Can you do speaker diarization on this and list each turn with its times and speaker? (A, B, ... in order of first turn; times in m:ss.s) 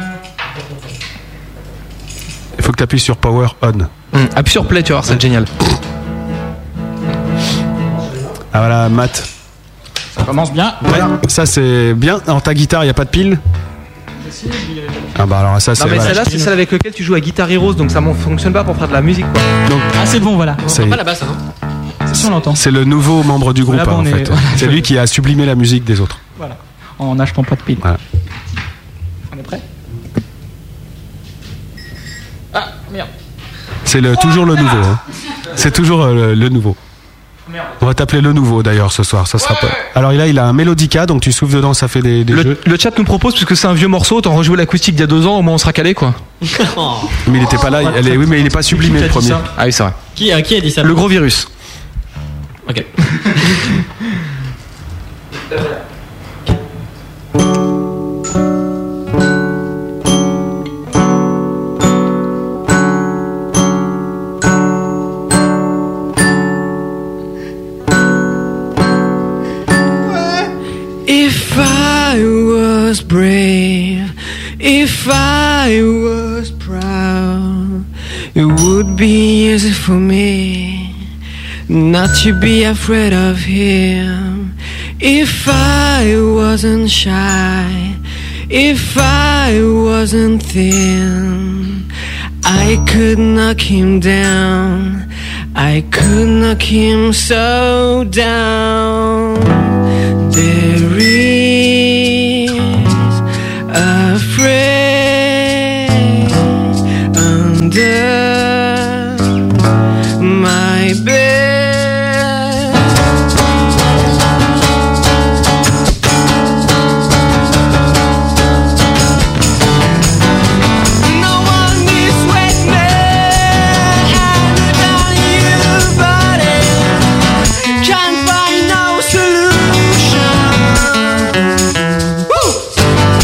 0:02.6-0:03.9 A
0:04.1-0:05.5 B
0:08.5-0:09.3 A
0:10.2-0:11.1 C
0:10.8-0:13.4 A
0:14.3-0:15.2 C
0:15.2-0:16.2 A
0:15.8-0:19.5 B
0:15.8-0:16.5 C
0:19.6-0:19.9 A
0:20.0-0:20.6 C
0:20.6-0:21.0 A
0:20.6-0:21.4 D
0:22.1-0:22.6 C
0:22.2-0:26.2 A
0:23.6-0:24.9 C
0:26.4-0:27.8 C
0:29.3-0:29.6 C
0:32.5-0:33.1 C
0:33.8-0:36.8 A
0:37.8-0:42.6 A
0:42.3-0:46.2 B
0:46.5-0:47.2 D
0:47.2-0:49.5 A
0:47.5-0:49.5 C
0:49.6-0:50.0 B
0:50.2-0:51.2 D
0:50.8-0:51.4 B
0:53.4-0:53.7 D
1:11.0-1:17.8 E
1:18.3-1:20.9 E
1:21.7-1:28.0 E
1:28.5-1:31.8 E
1:32.4-1:39.6 E
1:40.2-1:49.3 E
1:50.2-1:52.9 E
2:01.0-2:11.3 E
2:12.1-2:12.6 E